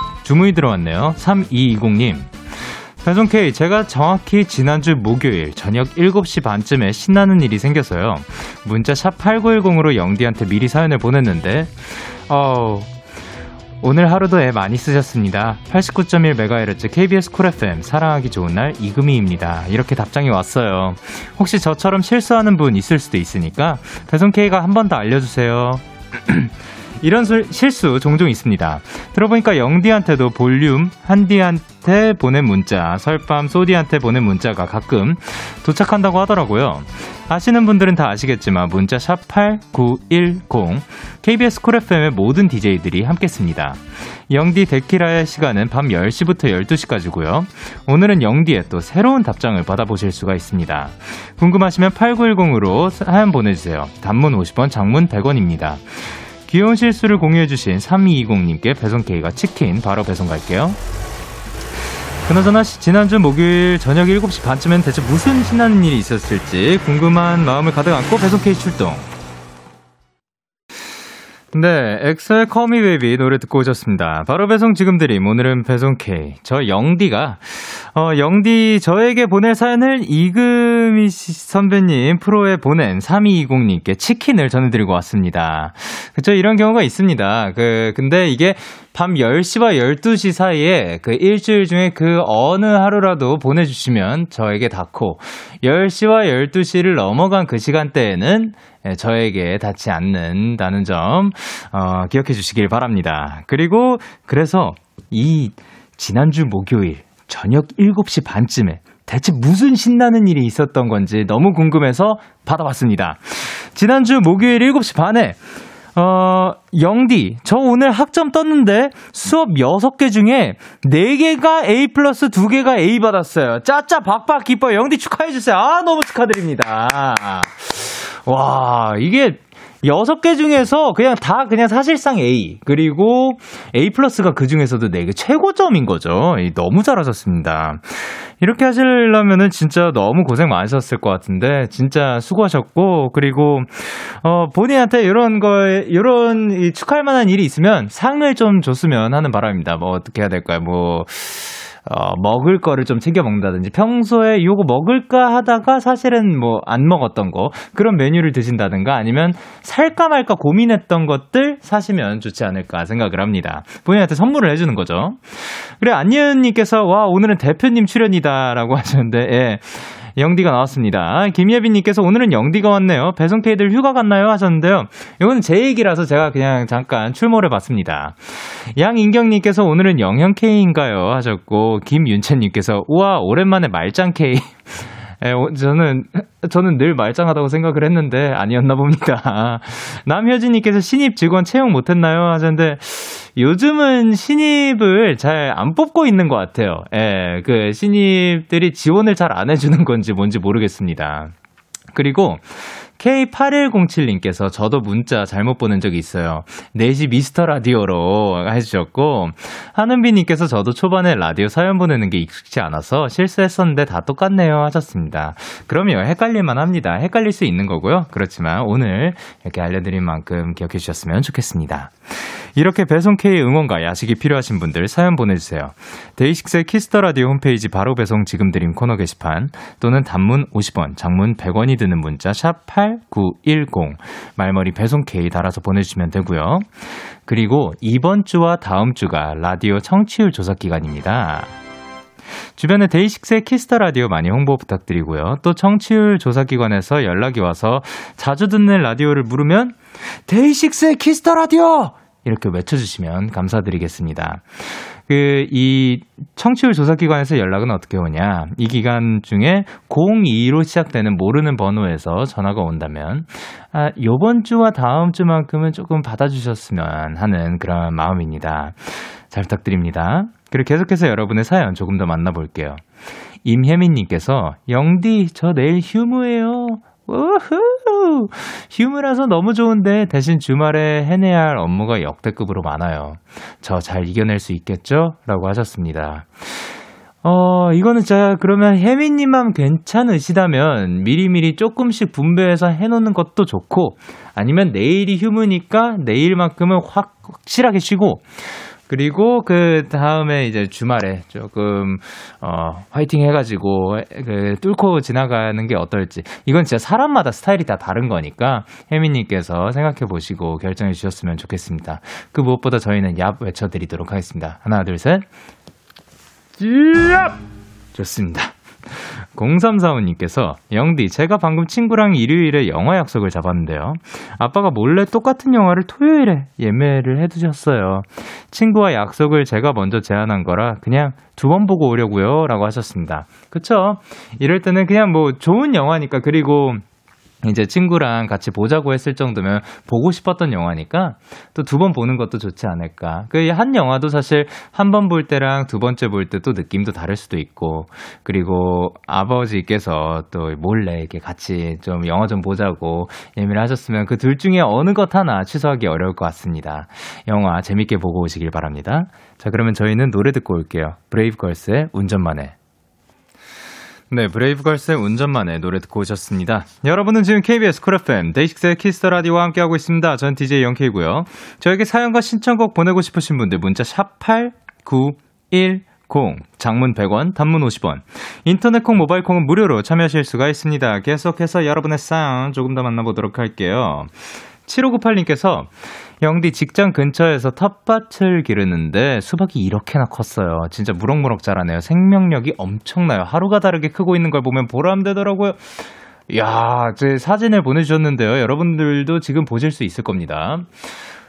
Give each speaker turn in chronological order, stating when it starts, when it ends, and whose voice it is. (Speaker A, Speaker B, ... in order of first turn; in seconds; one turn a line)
Speaker A: 0.2-12.9
Speaker A: 13.8-60.8
Speaker A: 62.3-69.1
Speaker A: 71.5-115.4
Speaker A: 116.0-201.3
Speaker A: 201.9-241.5
Speaker A: 242.6-272.8
Speaker A: 273.4-315.2
Speaker A: 316.6-317.4
Speaker A: 317.9-336.8
Speaker A: 337.4-362.5
Speaker A: 364.1-400.9